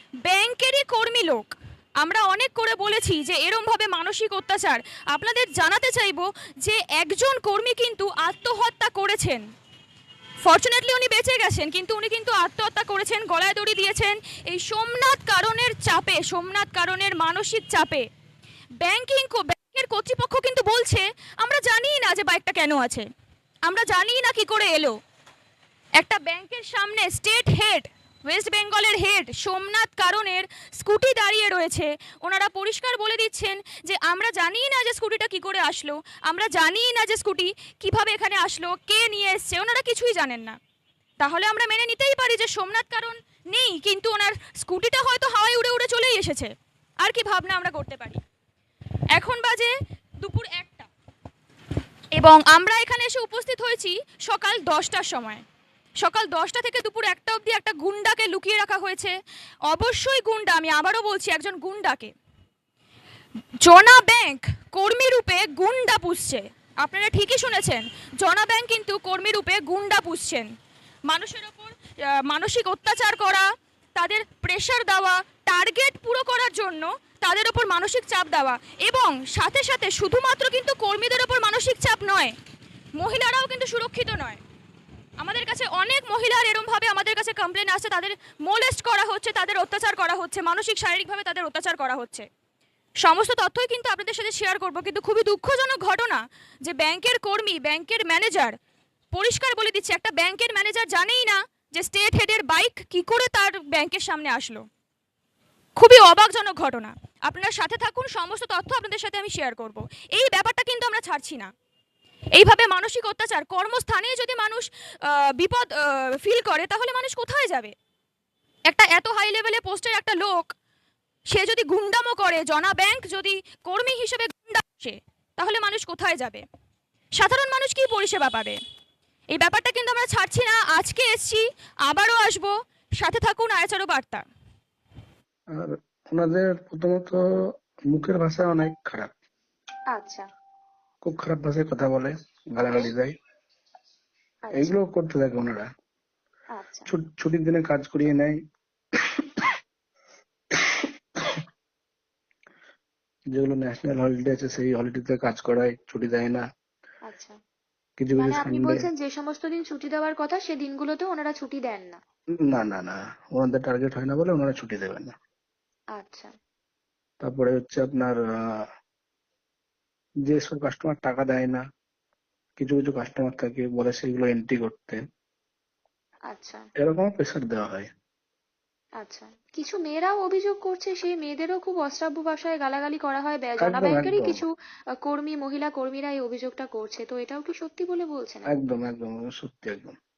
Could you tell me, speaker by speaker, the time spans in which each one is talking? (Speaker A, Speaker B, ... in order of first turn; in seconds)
Speaker A: 0.2-9.4, 10.4-18.0, 18.8-23.0, 23.7-24.9, 26.0-40.5, 41.2-46.5, 47.0-48.2, 49.1-49.7, 50.2-50.9, 52.2-55.4, 56.0-59.1, 59.7-62.1, 63.6-70.5, 71.1-71.7, 72.3-73.4, 74.0-82.3, 83.0-84.4, 85.2-92.2, 93.0-98.5, 99.1-104.6, 105.8-111.5, 112.3-117.7, 118.7-120.5, 121.3-126.4, 127.2-128.6, 129.3-134.2
Speaker B: 135.5-137.2, 137.9-139.1, 141.0-143.1, 144.5-145.7, 146.9-148.4, 153.3-156.4, 158.0-158.8, 162.4-165.1, 167.2-168.6, 170.3-171.6, 172.6-175.0, 176.8-177.9, 183.6-184.4, 188.5-189.9
Speaker C: 139.9-140.2, 142.7-142.9, 144.5-144.8, 146.5-146.9, 157.1-157.3, 158.2-162.0, 165.9-166.3, 176.3-176.6, 179.0-184.5, 185.1-188.6